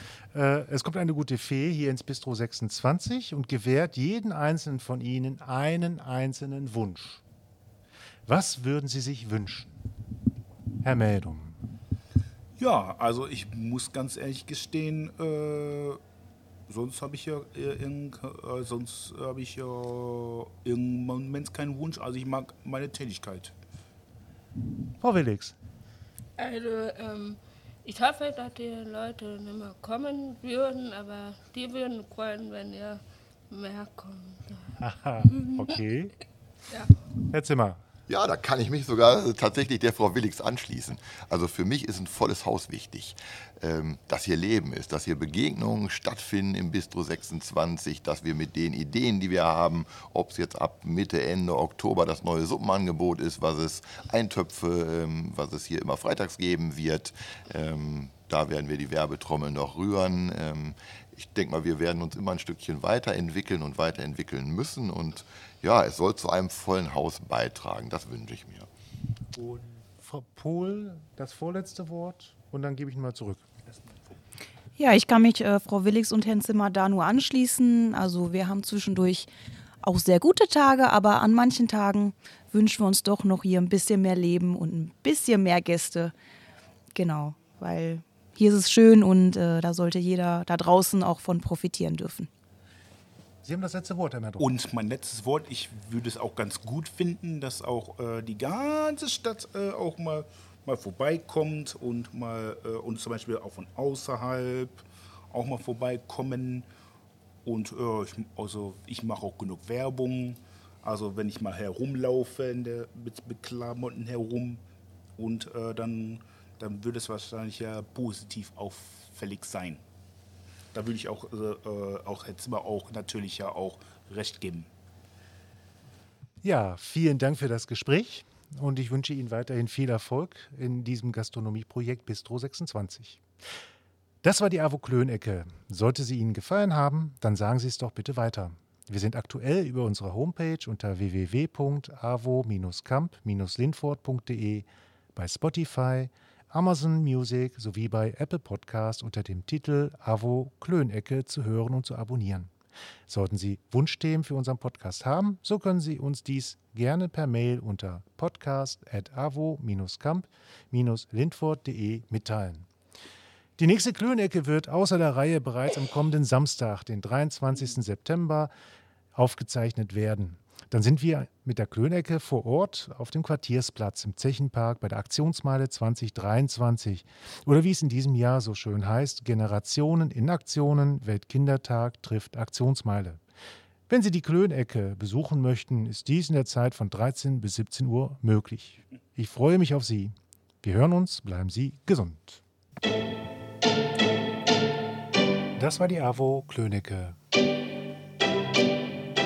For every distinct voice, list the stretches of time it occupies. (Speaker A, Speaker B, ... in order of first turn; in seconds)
Speaker A: 0.3-7.2, 8.3-9.7, 10.8-11.6, 25.0-25.6, 34.8-36.1, 37.3-37.8, 70.0-73.4, 93.4-94.5, 126.4-133.2, 134.2-152.5, 153.1-162.7, 163.6-168.5, 169.1-183.2, 183.9-192.4, 195.6-197.2
Speaker B: 12.6-16.0, 16.7-23.5, 69.3-69.6, 94.4-106.7, 107.4-114.6, 115.2-119.8, 120.7-124.7
Speaker C: 26.4-34.7, 35.2-35.5
Speaker D: 38.1-68.7
Speaker E: 74.8-79.3, 79.8-86.1, 86.9-92.3